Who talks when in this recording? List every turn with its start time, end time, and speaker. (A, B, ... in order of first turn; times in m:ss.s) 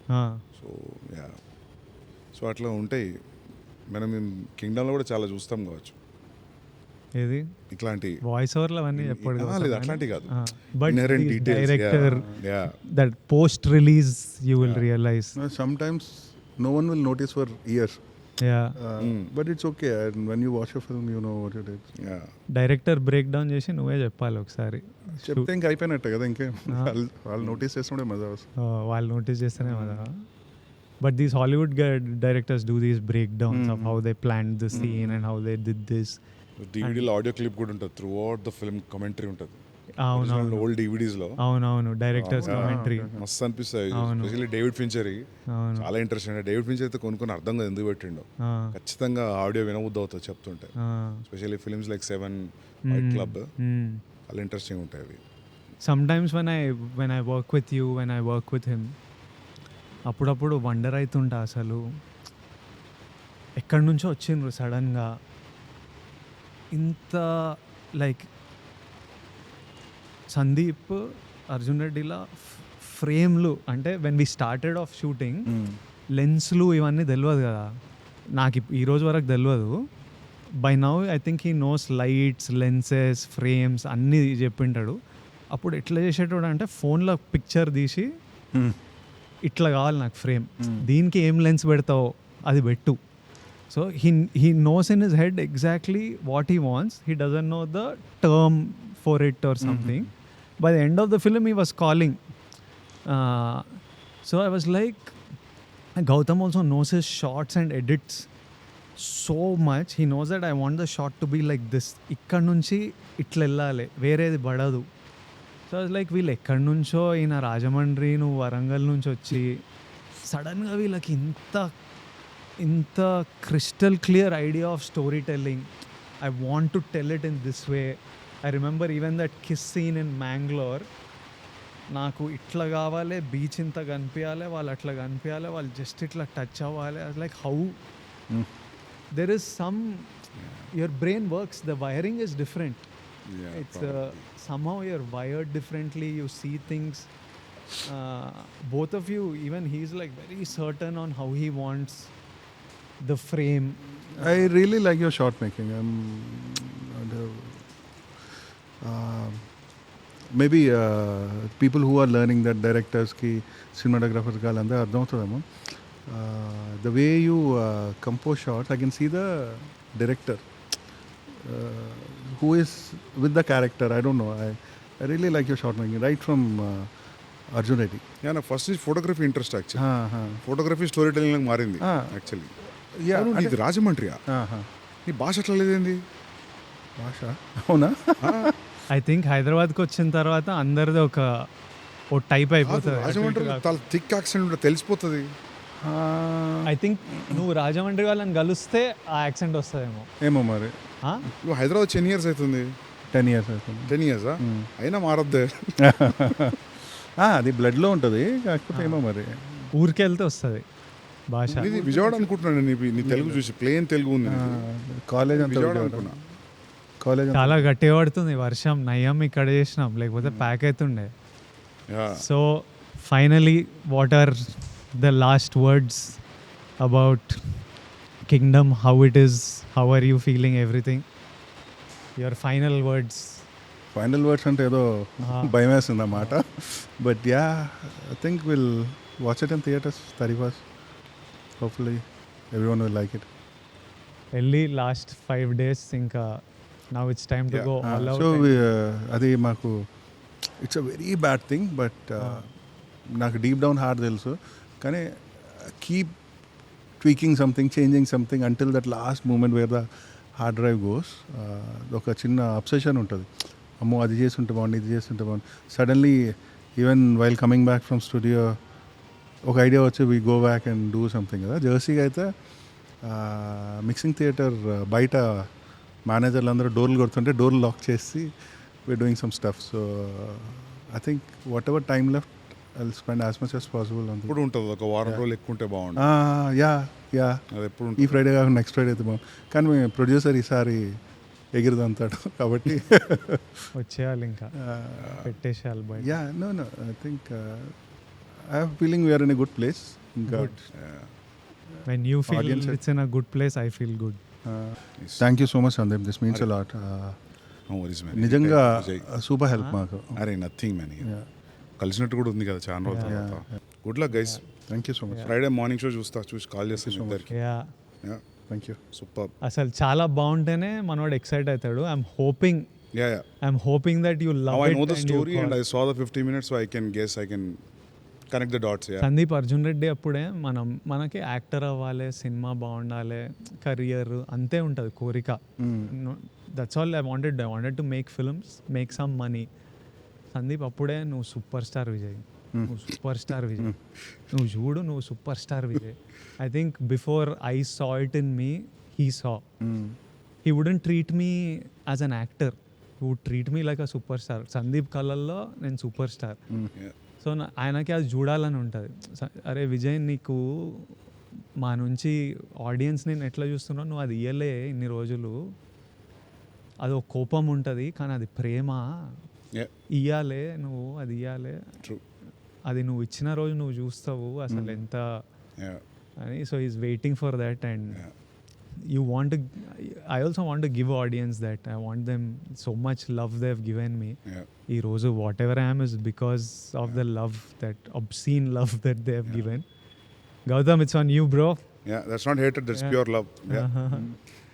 0:00.1-0:00.4 A
0:00.6-0:01.3 B
0:02.3-0:03.1 B
0:03.9-0:06.0 B
0:07.2-0:07.5 A
0:07.7-0:08.2 B
0:08.2-0:15.3 A
0:09.0-0:12.8 B
0:12.0-0:12.4 C
0:14.6-0:14.9 B
0:15.4-0:18.0 C
0:18.4-0:18.8 A
0:18.8-0:21.8 C
0:19.0-0:19.3 B
0:22.0-0:22.3 B
0:22.5-0:25.5 A
0:25.2-0:28.5 C
0:28.6-0:30.2 A
0:29.6-0:30.0 C
0:31.0-0:36.2 A
0:33.5-0:34.0 C
0:34.7-0:35.2 C
0:36.6-0:39.6 B
0:36.8-0:37.1 A
0:40.0-0:40.7 A
0:40.1-0:41.4 B
0:41.4-0:43.1 A
0:42.2-0:45.2 B
0:42.4-0:43.3 C
0:43.9-0:44.4 A
0:45.5-0:45.9 A
0:45.8-0:50.7 B
0:48.4-0:48.8 A
0:50.8-0:51.2 A
0:51.3-0:53.5 B
0:52.9-0:54.0 A
0:54.3-0:55.2 B
0:55.8-0:58.9 A
1:00.1-1:01.8 A
1:03.6-1:05.1 A
1:06.7-1:08.3 A
1:10.3-1:15.5 A
1:15.5-1:15.8 C
1:16.2-1:17.7 A
1:18.3-1:19.8 A
1:20.6-1:25.0 A
1:25.5-1:28.1 A
1:29.4-1:33.0 A
1:30.6-1:30.8 C
1:33.7-1:42.2 A
1:39.6-1:40.1 C
1:43.1-1:45.2 A
1:46.0-1:48.3 A
1:49.0-1:54.9 A
1:55.7-1:59.6 A
2:00.3-2:01.7 A
2:02.6-2:05.7 A
2:06.2-2:10.9 A
2:11.9-2:17.8 A
2:19.1-2:20.1 A
2:20.4-2:20.7 B
2:20.7-2:22.9 A
2:23.3-2:24.2 B
2:23.5-2:27.1 A
2:27.8-2:32.1 A
2:33.0-2:34.5 A
2:34.2-2:37.6 C
2:38.8-2:39.5 C
2:40.3-2:45.5 C
2:46.0-2:50.5 C
2:51.3-2:56.9 C
2:57.5-2:58.0 C
2:58.2-2:59.8 B
2:59.8-3:00.4 C
3:00.4-3:02.5 B
3:01.8-3:02.1 C
3:02.9-3:03.6 C
3:03.1-3:04.2 B
3:04.3-3:04.7 C
3:05.1-3:06.0 B
3:07.0-3:08.5 C
3:08.2-3:08.5 B
3:08.9-3:11.5 A
3:12.1-3:13.6 A
3:12.6-3:15.3 B
3:15.8-3:16.7 C
3:16.7-3:20.1 A
3:20.2-3:20.8 C
3:21.4-3:22.7 B
3:23.1-3:24.7 C
3:23.9-3:25.8 B
3:25.8-3:29.7 C
3:28.7-3:29.0 A
3:29.8-3:30.6 A
3:31.3-3:31.7 A
3:31.5-3:32.3 C
3:31.6-3:34.7 B
3:33.0-3:33.4 C
3:34.2-3:36.2 C
3:35.3-3:36.2 B
3:37.0-3:37.7 C
3:37.3-3:41.1 A
3:40.2-3:40.5 C
3:41.9-3:42.2 B
3:42.2-3:46.2 A
3:46.8-3:47.6 A
3:48.3-3:51.0 A
3:52.2-3:53.4 A
3:53.9-4:00.6 C
3:55.2-3:55.6 A
4:01.6-4:03.3 C
4:04.3-4:08.7 A
4:07.8-4:09.9 C
4:10.6-4:12.5 C
4:12.2-4:12.4 A
4:13.1-4:16.2 C
4:17.0-4:28.6 C
4:29.4-4:32.3 C
4:33.0-4:35.5 C
4:36.0-4:38.3 C
4:38.9-4:44.4 C
4:44.3-4:46.1 B
4:46.0-4:47.4 C
4:47.5-4:48.2 B
4:48.0-4:51.0 C
4:51.5-4:53.7 C
4:53.8-4:54.6 A
4:54.6-4:55.2 C
4:55.0-4:55.3 B
4:55.1-4:56.1 A
4:55.9-4:57.8 C
4:58.4-5:00.6 C
5:00.3-5:00.6 A
5:00.7-5:01.1 B
5:01.9-5:04.2 A
5:02.3-5:02.8 C
5:04.4-5:07.2 C
5:05.0-5:05.2 B
5:07.7-5:09.0 B
5:08.1-5:10.2 C
5:10.1-5:11.1 B
5:11.0-5:11.2 C
5:11.8-5:14.4 B
5:12.8-5:13.2 A
5:13.0-5:13.4 C
5:14.1-5:14.4 A
5:14.7-5:15.3 C
5:15.2-5:17.3 B
5:16.8-5:17.3 C
5:17.3-5:17.7 A
5:18.5-5:18.8 C
5:18.9-5:19.3 B
5:19.4-5:22.7 A
5:22.9-5:23.2 B
5:23.4-5:25.6 A
5:24.5-5:27.6 B
5:28.3-5:29.1 B
5:29.0-5:39.5 A
5:35.6-5:35.9 C
5:40.3-5:43.7 A
5:44.3-5:49.4 A
5:49.6-5:50.0 C
5:50.4-5:56.4 A
5:57.2-6:00.9 A
6:01.6-6:05.4 A
6:06.8-6:09.2 A
6:09.9-6:11.8 A
6:12.7-6:15.2 A
6:16.2-6:18.0 A
6:18.8-6:29.7 A
6:30.5-6:31.6 A
6:31.8-6:33.7 B
6:32.7-6:33.0 A
6:33.5-6:34.1 A